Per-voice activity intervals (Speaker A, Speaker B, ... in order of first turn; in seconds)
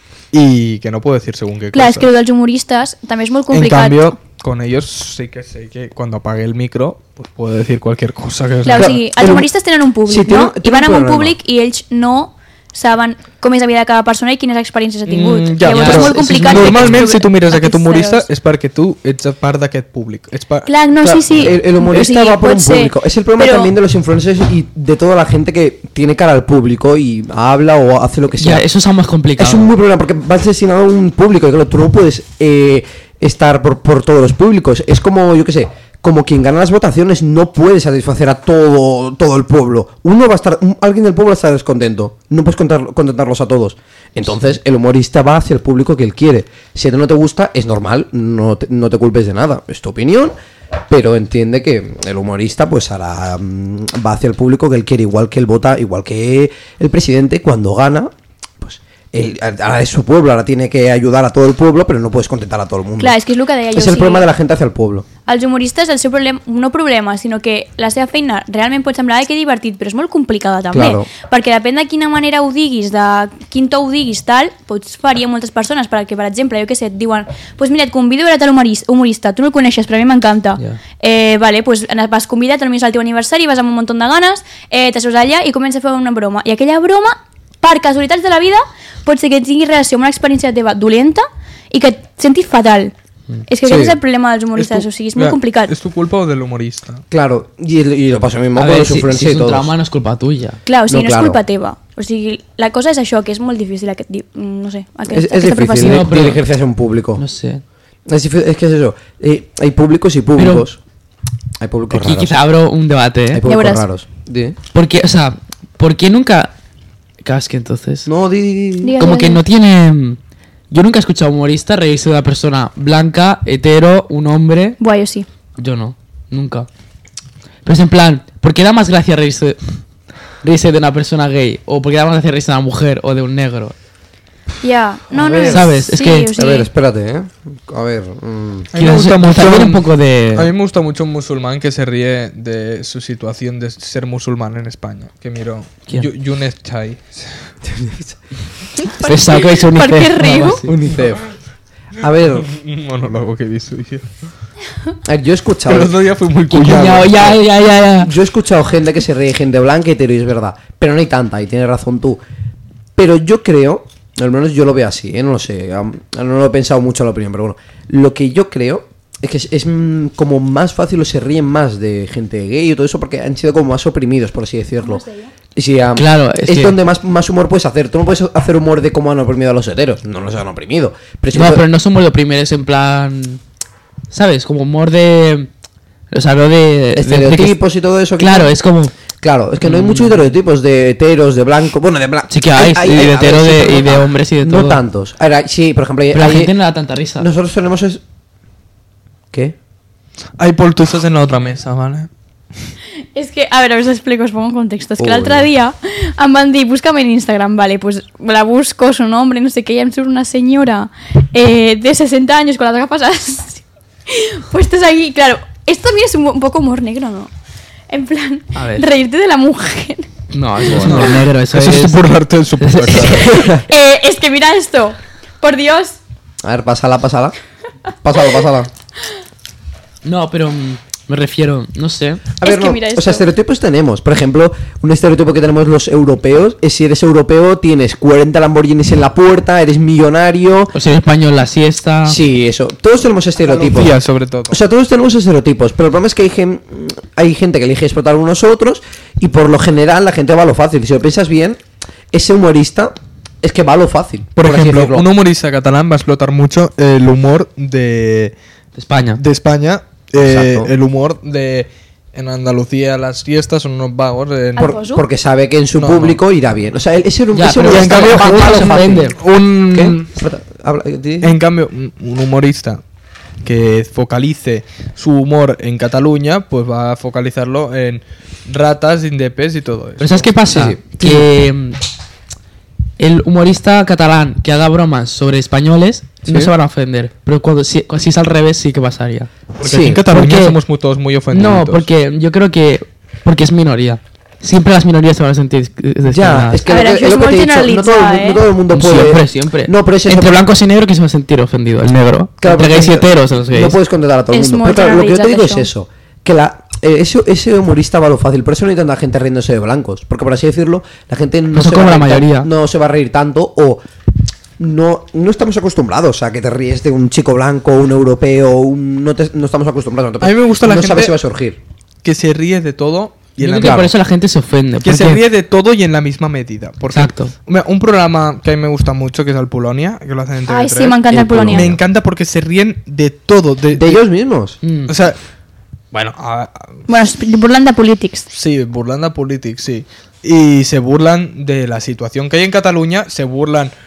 Speaker A: 0.3-2.1, 3.5-9.0, 15.1-20.7, 94.5-97.0, 138.7-147.5, 152.5-154.0, 155.7-157.3, 200.4-202.1, 220.7-223.5, 243.4-244.6, 254.3-258.3, 259.2-264.7, 265.8-266.2, 267.6-270.1, 271.2-272.8, 273.4-280.3, 289.6-291.9, 320.2-321.1, 322.0-323.9, 324.8-334.0, 334.9-335.2, 335.9-336.8, 338.3-343.7
Speaker B: 1.7-4.0, 8.6-18.2, 20.6-23.7, 63.0-64.3, 65.2-92.9, 93.5-95.7, 100.7-106.1, 113.5-113.8, 118.8-119.4, 124.8-125.3, 134.6-136.7, 148.8-150.6, 174.8-175.3, 203.1-217.3, 217.9-220.1, 220.6-221.2, 223.0-226.0, 232.4-233.2, 264.6-265.0, 296.7-298.4, 304.3-305.7, 330.5-331.7, 336.9-338.3
Speaker C: 8.7-9.5, 10.1-11.3, 21.0-28.6, 29.4-50.3, 50.9-58.1, 58.6-63.1, 63.7-65.1, 70.7-71.1, 93.7-94.0, 97.1-99.7, 100.9-101.4, 105.1-107.2, 108.1-110.8, 111.6-112.4, 113.3-114.6, 118.0-119.0, 135.1-135.7, 136.3-138.7, 147.6-148.2, 150.6-151.2, 152.0-152.5, 155.0-155.9, 156.6-157.4, 158.0-162.2, 162.9-175.0, 175.6-181.6, 186.9-188.5, 189.2-196.5, 197.2-198.0, 205.0-205.5, 226.4-227.3, 228.0-228.7, 232.4-240.7, 242.1-244.0, 244.5-251.6, 252.1-255.1, 260.2-260.7, 264.6-269.1, 269.7-271.4, 280.5-281.3, 286.2-286.5, 289.6-290.0, 296.1-300.4, 302.4-313.8, 314.6-321.6, 323.6-323.9, 331.1-331.8, 333.7-334.6
Speaker D: 15.6-17.1, 28.4-29.7, 98.5-100.6, 105.8-106.4, 107.2-107.6, 110.4-110.7, 111.9-113.4, 114.7-116.5, 117.2-118.1, 119.0-120.2, 120.7-124.8, 125.6-126.7, 127.6-129.6, 130.4-133.7, 135.5-136.3, 138.8-140.5, 149.0-150.7, 156.5-158.1, 175.9-176.8, 181.3-183.4, 184.1-185.5, 186.1-187.6, 188.2-188.9, 189.6-190.3, 192.3-194.8, 196.1-197.3, 218.5-218.9, 220.3-223.3, 230.0-232.3, 240.7-242.2, 258.7-259.2, 267.3-269.1, 280.0-281.8, 283.0-289.3, 290.1-290.6, 291.3-296.6, 298.7-303.8, 311.5-312.5, 323.4-325.2, 326.9-327.3, 334.6-334.9